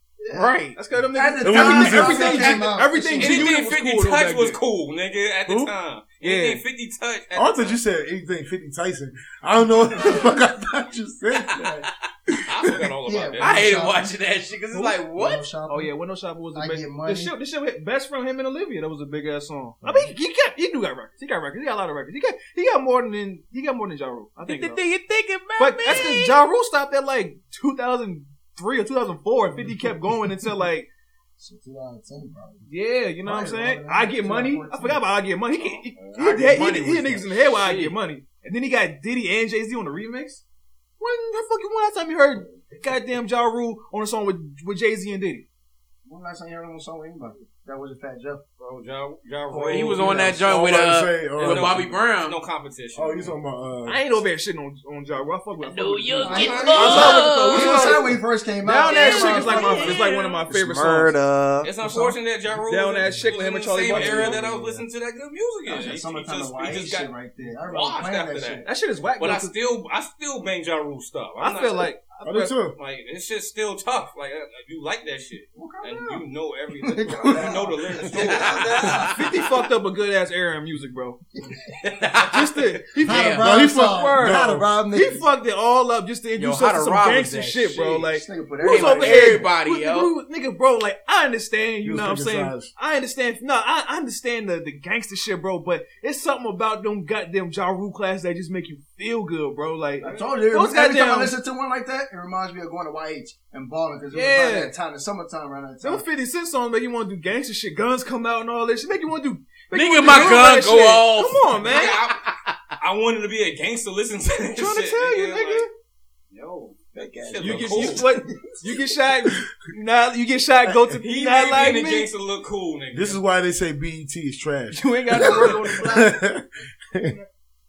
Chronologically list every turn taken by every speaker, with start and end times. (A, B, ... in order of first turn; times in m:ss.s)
0:00.2-0:00.5 A
0:00.3-0:00.8 B
0:00.7-0:04.6 C
0:01.1-0:03.5 A
0:01.4-0:02.6 D
0:03.2-0:07.8 E
0:05.5-0:05.7 D
0:06.2-0:06.6 C
0:07.3-0:11.9 D
0:12.4-0:13.7 E
0:13.0-0:14.2 A
0:13.4-0:15.4 B
0:14.7-0:15.0 C
0:15.1-0:15.9 A
0:15.7-0:24.8 C
0:16.5-0:17.3 A
0:24.4-0:26.4 B
0:25.6-0:30.9 C
0:31.4-0:32.7 A
0:32.7-0:40.4 C
0:33.2-0:35.0 A
0:35.6-0:36.4 E
0:36.2-0:38.0 B
0:41.0-0:45.4 C
0:46.0-0:48.4 A
0:48.6-0:50.3 E
0:49.5-0:50.6 A
0:49.7-0:52.4 B
0:50.4-0:51.9 D
0:51.4-0:53.4 E
0:52.9-0:54.0 D
0:53.8-1:01.1 C
0:55.6-0:58.1 B
0:56.2-1:02.2 A
0:56.2-0:57.2 E
0:58.9-1:00.4 B
1:01.6-1:07.1 E
1:02.7-1:04.5 C
1:03.9-1:04.7 A
1:05.6-1:08.6 A
1:07.7-1:08.6 E
1:08.6-1:09.5 C
1:09.2-1:11.9 E
1:11.4-1:12.6 C
1:12.2-1:12.7 D
1:12.8-1:19.1 E
1:15.5-1:16.2 A
1:16.8-1:19.4 A
1:17.2-1:18.1 D
1:19.1-1:21.2 C
1:21.8-1:22.1 E
1:21.9-1:23.5 B
1:22.2-1:41.3 C
1:23.0-1:25.3 A
1:23.4-1:24.7 D
1:26.4-1:30.1 B
1:28.1-1:29.5 A
1:31.8-1:32.7 D
1:40.0-1:46.0 A
1:44.1-1:44.7 C
1:45.8-1:52.0 C
1:49.7-1:51.4 B
1:51.6-1:52.3 E
1:52.2-1:52.5 B
1:52.8-1:55.6 E
1:54.5-1:55.7 C
1:56.3-1:58.1 E
1:56.9-1:58.7 A
1:57.3-2:02.1 C
2:00.6-2:00.9 D
2:01.0-2:03.2 E
2:02.9-2:07.2 D
2:04.7-2:06.1 C
2:05.2-2:06.0 A